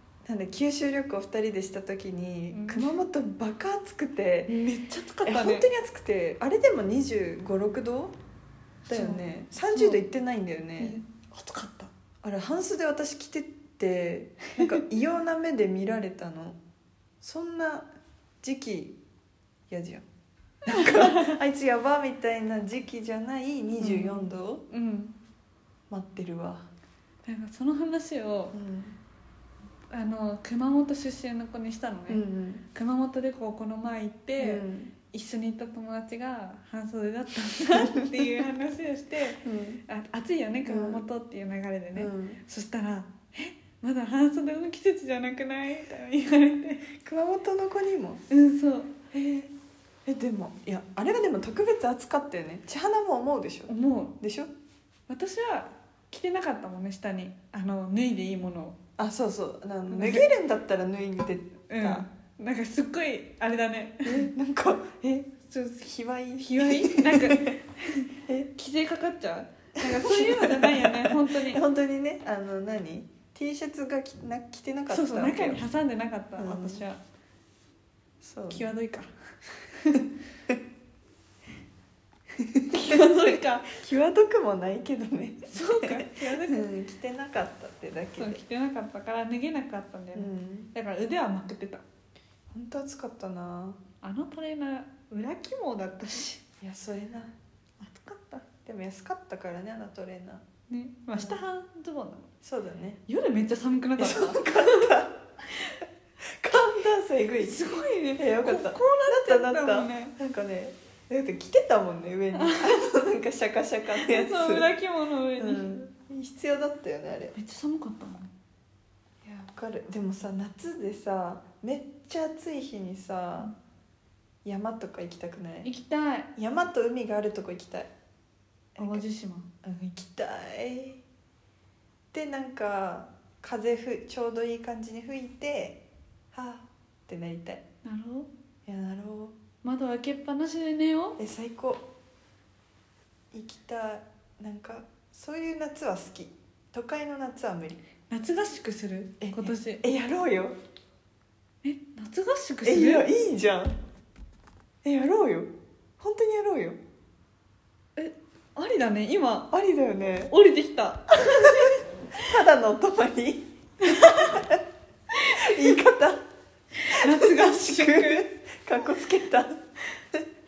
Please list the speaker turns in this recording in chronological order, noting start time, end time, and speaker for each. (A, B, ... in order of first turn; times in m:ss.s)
0:00.2-0:04.6 A
0:02.5-0:03.0 B
0:04.5-0:05.7 B
0:05.2-0:08.2 A
0:08.9-0:10.0 B
0:08.9-0:11.0 A
0:10.8-0:11.9 B
0:12.2-0:16.6 A
0:14.6-0:14.8 B
0:17.2-0:17.9 A
0:18.4-0:19.0 A
0:19.7-0:20.0 A
0:20.6-0:24.6 A
0:20.7-0:21.4 B
0:23.8-0:25.1 B
0:25.9-0:26.7 A
0:27.2-0:28.6 B
0:28.5-0:29.0 A
0:29.9-0:32.2 B
0:32.1-0:32.6 A
0:32.8-0:46.9 B
0:34.4-0:35.0 A
0:37.6-0:38.4 A
0:39.4-0:39.8 A
0:40.7-0:41.0 A
0:42.0-0:42.4 A
0:47.0-0:48.2 A
0:48.3-0:49.0 B
0:49.1-0:49.5 A
0:50.0-0:54.5 A
0:53.7-0:54.2 B
0:55.1-0:58.8 B
0:59.0-1:02.1 A
0:59.9-1:00.3 B
1:01.7-1:04.3 B
1:04.0-1:07.6 A
1:05.5-1:05.9 B
1:06.4-1:11.6 B
1:09.8-1:15.6 A
1:14.9-1:17.0 B
1:16.4-1:16.8 A
1:18.2-1:18.7 A
1:18.5-1:19.1 B
1:19.7-1:20.0 B
1:22.4-1:28.4 A
1:22.7-1:23.8 B
1:25.5-1:26.7 B
1:28.2-1:31.8 B
1:30.2-1:30.7 A
1:32.5-1:33.8 A
1:34.0-1:36.4 B
1:36.6-1:37.3 A
1:37.8-1:38.5 B
1:38.6-1:40.4 A
1:40.7-1:42.3 B
1:41.1-1:41.4 A
1:42.4-1:43.0 A
1:43.1-1:45.0 B
1:44.0-1:45.2 A
1:46.4-1:47.6 A
1:47.4-1:50.1 B
1:48.2-1:54.7 A
1:52.4-1:52.8 B
1:53.9-1:55.8 B
1:55.4-1:57.4 A
1:57.4-1:58.3 B
1:59.2-2:03.5 A
2:04.4-2:05.7 A
2:05.6-2:06.3 B
2:06.4-2:07.9 A
2:08.8-2:09.0 A
2:08.8-2:09.5 B
2:09.6-2:11.0 A
2:12.1-2:15.8 A
2:16.3-2:17.6 A
2:17.8-2:18.3 B
2:18.7-2:19.4 A
2:19.6-2:21.2 B
2:21.2-2:21.8 A
2:23.3-2:27.8 A
2:28.1-2:29.8 B
2:29.2-2:30.6 A
2:31.6-2:33.1 B
2:32.6-2:33.8 A
2:34.8-2:36.8 A
2:38.0-2:39.5 B
2:39.5-2:40.3 A
2:40.3-2:41.8 B
2:42.2-2:43.5 A
2:43.8-2:44.4 B
2:44.1-2:44.6 A
2:45.2-2:45.8 B
2:45.3-2:46.2 A
2:46.8-2:48.3 B
2:47.0-2:49.5 A